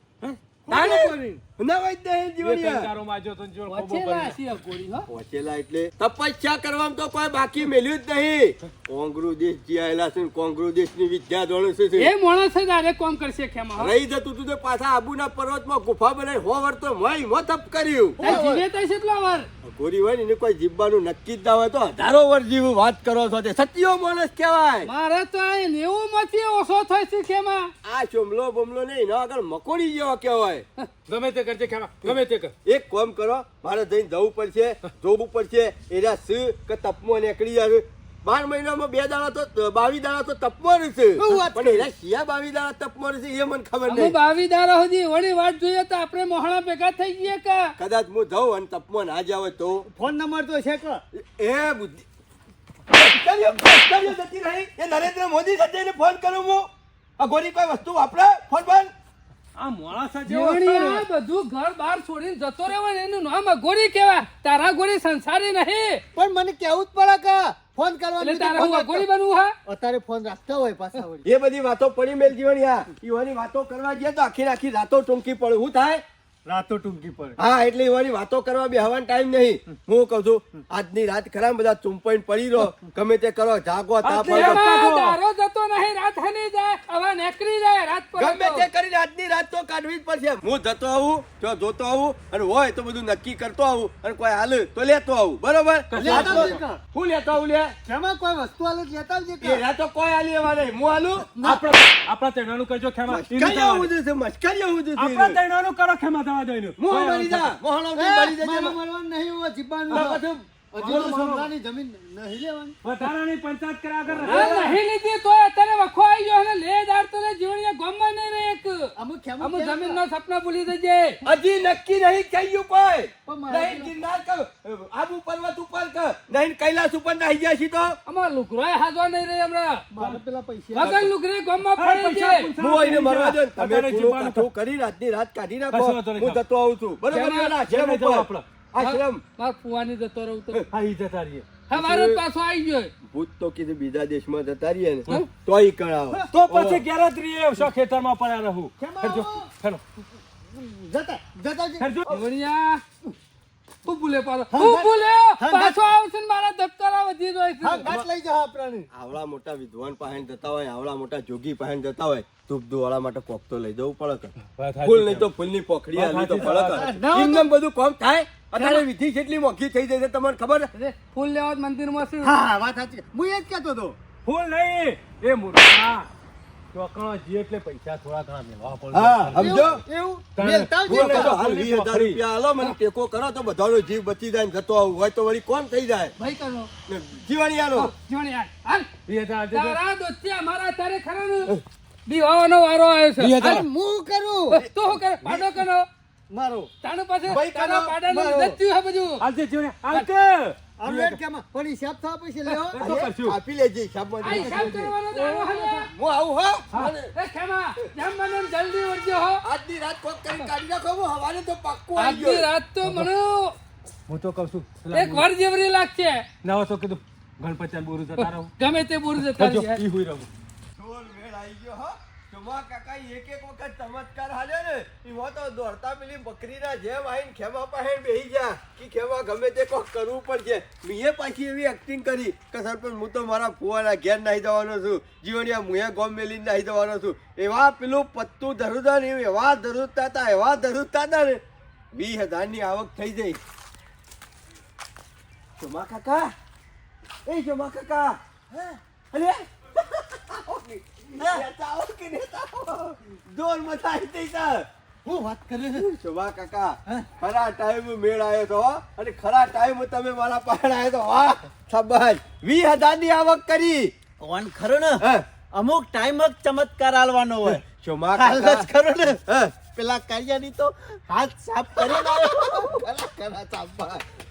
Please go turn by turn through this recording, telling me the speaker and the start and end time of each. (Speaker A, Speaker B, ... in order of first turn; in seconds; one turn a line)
Speaker A: 0.7-1.4
Speaker B: 0.7-2.9
Speaker C: 2.4-4.4
Speaker D: 3.7-5.1
Speaker B: 5.1-12.1
Speaker D: 12.0-13.9
Speaker B: 13.8-18.5
Speaker A: 18.2-18.6
Speaker D: 18.2-19.5
Speaker B: 19.6-24.9
Speaker D: 24.8-27.7
Speaker B: 27.8-30.6
Speaker C: 31.1-32.5
Speaker B: 32.0-44.1
Speaker A: 41.2-41.9
Speaker D: 43.9-47.7
Speaker B: 47.8-49.9
Speaker A: 49.9-51.0
Speaker B: 51.1-52.1
Speaker B: 52.9-58.9
Speaker C: 59.6-61.0
Speaker D: 60.3-66.0
Speaker A: 66.1-69.0
Speaker D: 68.2-69.5
Speaker A: 69.7-71.2
Speaker B: 71.2-76.0
Speaker A: 76.5-77.4
Speaker B: 77.4-84.6
Speaker C: 84.0-85.2
Speaker D: 84.3-88.7
Speaker B: 88.2-97.7
Speaker C: 95.9-96.6
Speaker A: 96.0-96.8
Speaker A: 97.8-99.6
Speaker B: 99.4-101.7
Speaker C: 101.4-103.9
Speaker B: 103.1-105.4
Speaker C: 105.0-107.5
Speaker B: 106.8-108.8
Speaker A: 107.9-112.8
Speaker C: 109.9-110.2
Speaker B: 109.9-110.4
Speaker C: 110.8-111.5
Speaker C: 112.8-114.8
Speaker B: 114.1-114.5
Speaker A: 114.3-114.7
Speaker D: 114.3-121.2
Speaker A: 119.0-120.0
Speaker B: 121.2-128.0
Speaker A: 123.2-123.9
Speaker D: 128.1-129.8
Speaker A: 129.9-130.9
Speaker D: 130.7-132.5
Speaker B: 130.8-131.1
Speaker C: 131.8-134.4
Speaker B: 132.6-139.2
Speaker C: 135.7-136.4
Speaker C: 137.1-138.4
Speaker D: 138.8-140.6
Speaker C: 140.7-141.5
Speaker D: 141.7-142.9
Speaker B: 141.7-142.2
Speaker B: 143.0-146.8
Speaker C: 146.3-149.8
Speaker A: 148.8-149.5
Speaker A: 150.5-152.3
Speaker C: 151.8-152.1
Speaker D: 152.1-152.8
Speaker D: 153.8-157.8
Speaker A: 154.5-155.8
Speaker A: 157.6-158.9
Speaker B: 157.8-158.1
Speaker B: 158.9-170.7
Speaker C: 164.5-165.3
Speaker C: 165.9-167.0
Speaker A: 166.4-167.5
Speaker D: 170.7-172.3
Speaker A: 172.2-173.9
Speaker C: 174.2-176.1
Speaker C: 176.7-179.8
Speaker B: 178.9-179.8
Speaker A: 179.4-181.3
Speaker C: 180.4-182.2
Speaker B: 180.9-186.1
Speaker D: 186.2-186.7
Speaker B: 186.9-187.9
Speaker D: 187.8-188.9
Speaker C: 189.1-189.8
Speaker D: 189.5-191.5
Speaker D: 192.1-193.4
Speaker C: 193.2-193.7
Speaker A: 193.4-194.6
Speaker B: 194.5-195.6
Speaker D: 194.5-195.9
Speaker A: 196.3-196.7
Speaker D: 196.8-199.2
Speaker B: 197.3-197.9
Speaker A: 198.0-198.6
Speaker C: 199.2-201.2
Speaker A: 200.8-203.0
Speaker C: 202.7-203.4
Speaker B: 202.8-204.9
Speaker D: 204.2-205.9
Speaker A: 205.1-205.9
Speaker B: 205.9-207.1
Speaker D: 207.1-209.4
Speaker B: 209.4-212.5
Speaker D: 212.0-213.6
Speaker C: 214.1-215.2
Speaker D: 214.9-216.3
Speaker C: 216.4-218.5
Speaker D: 218.2-219.8
Speaker C: 219.2-220.3
Speaker B: 220.8-241.4
Speaker B: 241.9-243.4
Speaker B: 245.6-246.3
Speaker B: 247.2-248.2
Speaker B: 249.1-254.7
Speaker A: 255.1-255.8
Speaker B: 255.7-263.9
Speaker E: 264.2-267.6
Speaker B: 265.0-265.3
Speaker B: 267.4-268.7
Speaker E: 268.2-274.0
Speaker B: 269.2-269.5
Speaker B: 271.9-272.2